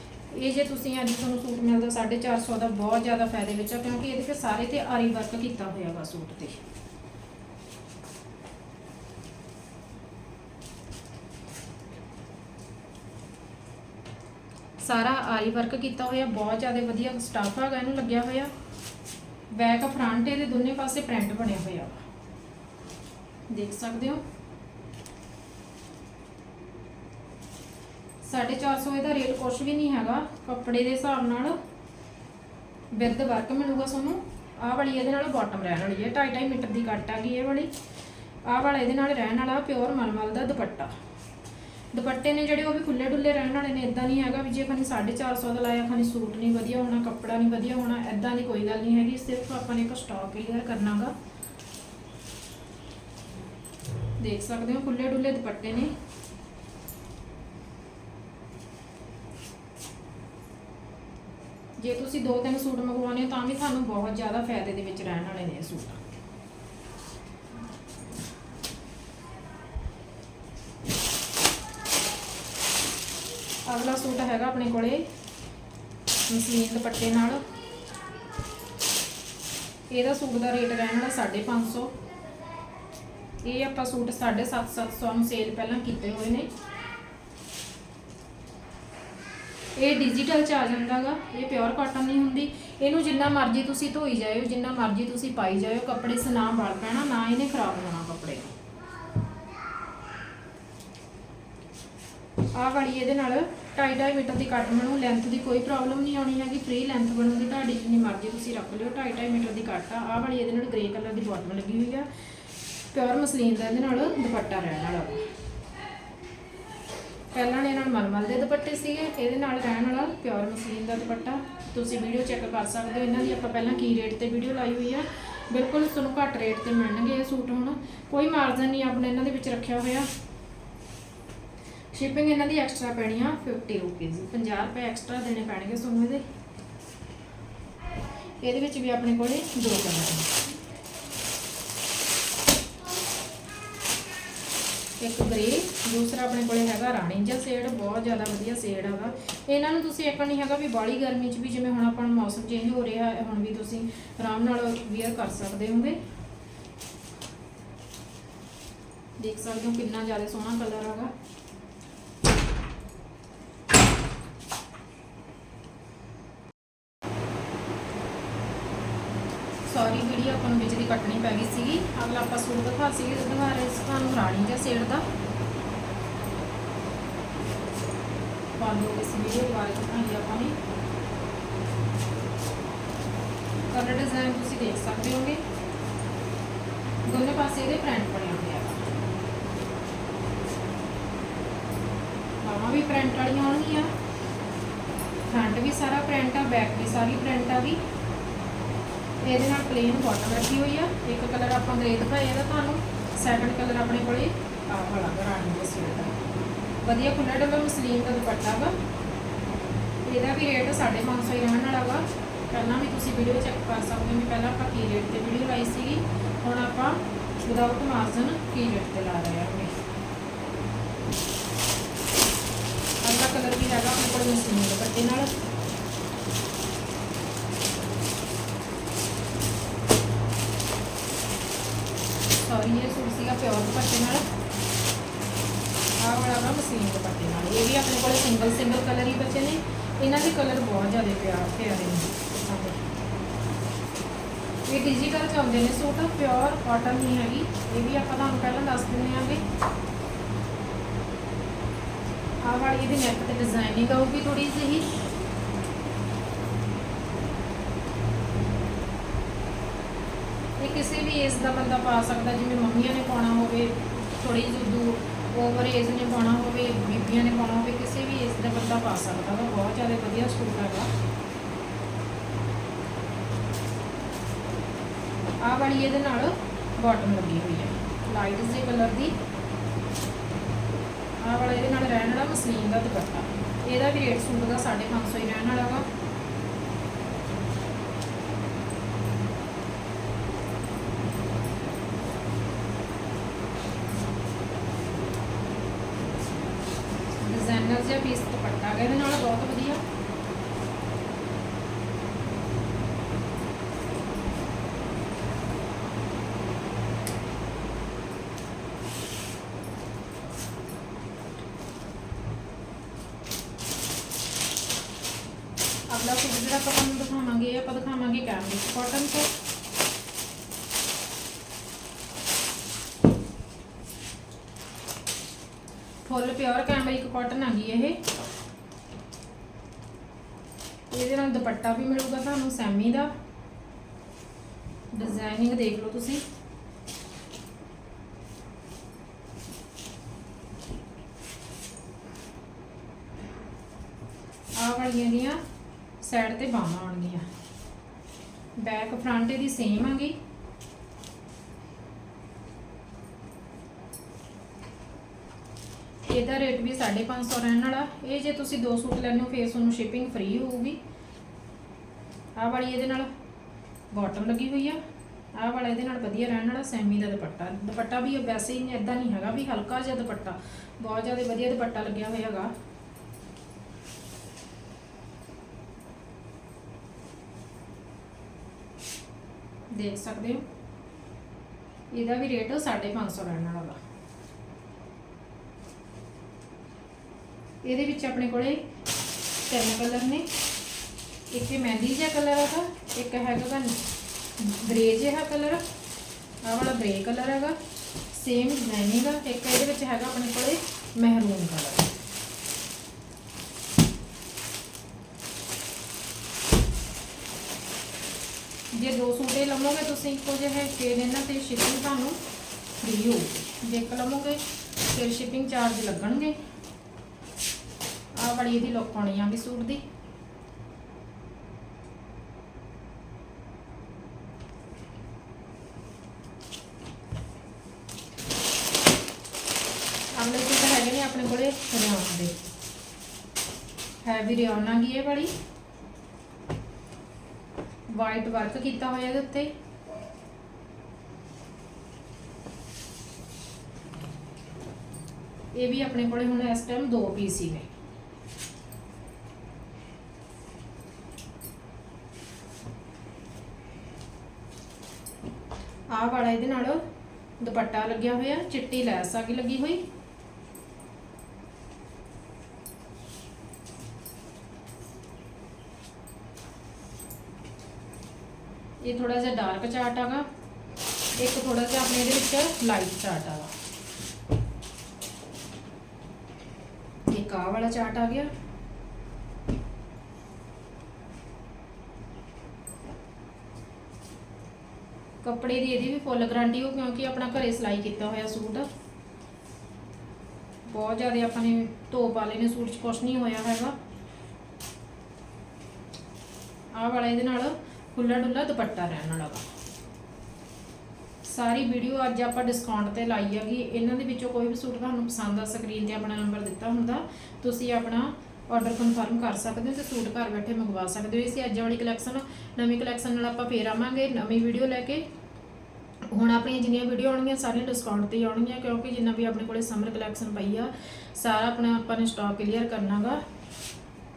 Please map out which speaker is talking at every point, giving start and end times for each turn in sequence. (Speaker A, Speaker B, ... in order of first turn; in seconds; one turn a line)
Speaker A: 0.3-6.6
Speaker A: 14.8-18.5
Speaker A: 19.5-22.0
Speaker A: 23.5-24.2
Speaker A: 28.2-31.6
Speaker A: 32.9-37.7
Speaker A: 38.5-40.9
Speaker A: 41.9-51.1
Speaker A: 54.2-55.9
Speaker A: 61.8-66.0
Speaker A: 73.7-75.0
Speaker A: 76.3-77.4
Speaker A: 79.9-82.0
Speaker A: 83.4-86.5
Speaker A: 89.8-98.5
Speaker A: 102.5-112.1
Speaker A: 112.9-115.2
Speaker A: 117.3-130.1
Speaker A: 131.9-136.2
Speaker A: 138.4-140.3
Speaker A: 145.0-156.0
Speaker A: 159.2-161.1
Speaker A: 169.7-175.0
Speaker A: 178.6-180.6
Speaker A: 183.7-185.4
Speaker A: 187.0-188.9
Speaker A: 192.4-193.9
Speaker A: 195.3-197.8
Speaker A: 199.2-206.1
Speaker A: 206.8-208.7
Speaker A: 210.1-219.7
Speaker A: 223.0-225.3
Speaker A: 232.4-234.2
Speaker A: 236.0-242.8
Speaker A: 244.7-249.4
Speaker A: 252.4-254.9
Speaker A: 260.6-270.9
Speaker A: 275.4-279.1
Speaker A: 281.2-285.9
Speaker A: 297.2-299.8
Speaker A: 315.9-319.3
Speaker A: 326.0-328.0
Speaker A: 330.9-333.1
Speaker A: 334.9-336.2
Speaker A: 344.6-345.4
Speaker A: 346.0-347.2
Speaker A: 348.6-350.2
Speaker A: 356.1-360.8
Speaker A: 362.4-363.1
Speaker A: 363.9-364.8
Speaker A: 365.3-372.5
Speaker A: 379.7-380.4
Speaker A: 381.9-383.8
Speaker A: 387.6-388.6
Speaker A: 389.5-390.3
Speaker A: 391.3-393.8
Speaker A: 394.4-395.6
Speaker A: 396.4-397.6
Speaker A: 398.1-401.9
Speaker A: 408.7-412.2
Speaker A: 412.8-416.4
Speaker A: 418.1-419.8
Speaker A: 430.1-432.4
Speaker A: 434.0-435.3
Speaker A: 437.9-439.5
Speaker A: 445.5-447.7
Speaker A: 455.9-456.8
Speaker A: 457.4-459.8
Speaker A: 468.8-470.3
Speaker A: 471.2-473.5
Speaker A: 477.1-478.3
Speaker A: 485.2-488.7
Speaker A: 490.7-493.7
Speaker A: 496.7-499.4
Speaker A: 501.2-515.0
Speaker A: 516.1-523.2